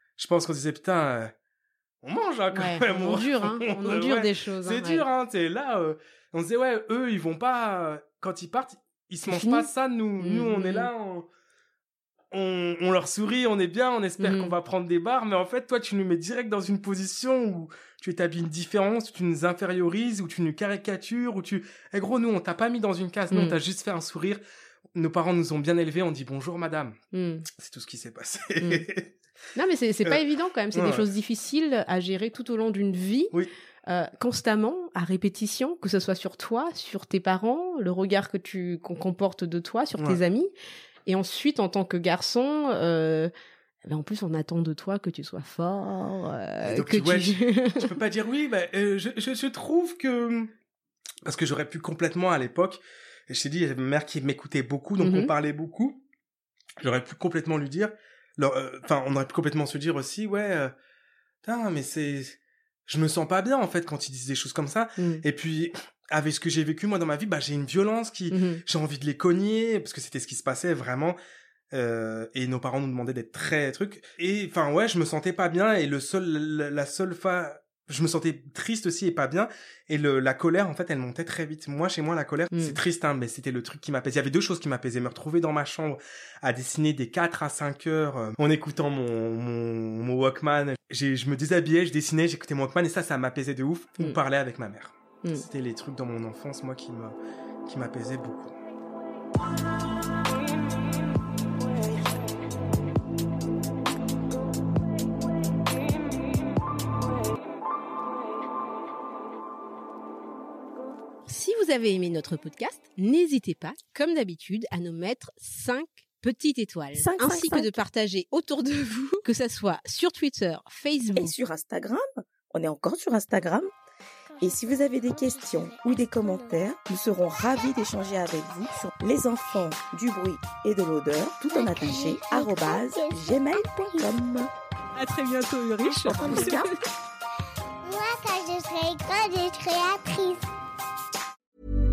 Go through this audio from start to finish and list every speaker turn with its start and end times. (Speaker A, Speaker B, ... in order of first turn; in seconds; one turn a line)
Speaker A: 0.2-1.3
Speaker A: 2.0-11.3
Speaker B: 2.5-5.0
Speaker B: 9.3-9.7
Speaker B: 10.2-10.9
Speaker A: 12.3-24.4
Speaker B: 14.2-14.5
Speaker B: 23.3-23.6
Speaker A: 24.9-27.0
Speaker B: 27.1-27.5
Speaker A: 27.5-29.1
Speaker B: 28.6-28.9
Speaker B: 29.6-33.3
Speaker A: 30.7-31.1
Speaker B: 33.9-40.5
Speaker B: 41.1-43.3
Speaker B: 43.8-47.9
Speaker A: 46.6-50.5
Speaker A: 51.2-56.0
Speaker B: 55.0-55.3
Speaker A: 56.8-60.7
Speaker A: 61.4-71.2
Speaker B: 65.0-65.2
Speaker B: 68.3-68.6
Speaker A: 71.7-98.6
Speaker B: 111.3-121.3
Speaker C: 116.9-117.7
Speaker C: 121.2-123.7
Speaker D: 124.3-126.6
Speaker C: 124.4-134.5
Speaker D: 131.5-134.2
Speaker B: 135.0-136.7
Speaker D: 135.8-136.6
Speaker C: 136.1-136.7
Speaker D: 137.8-140.5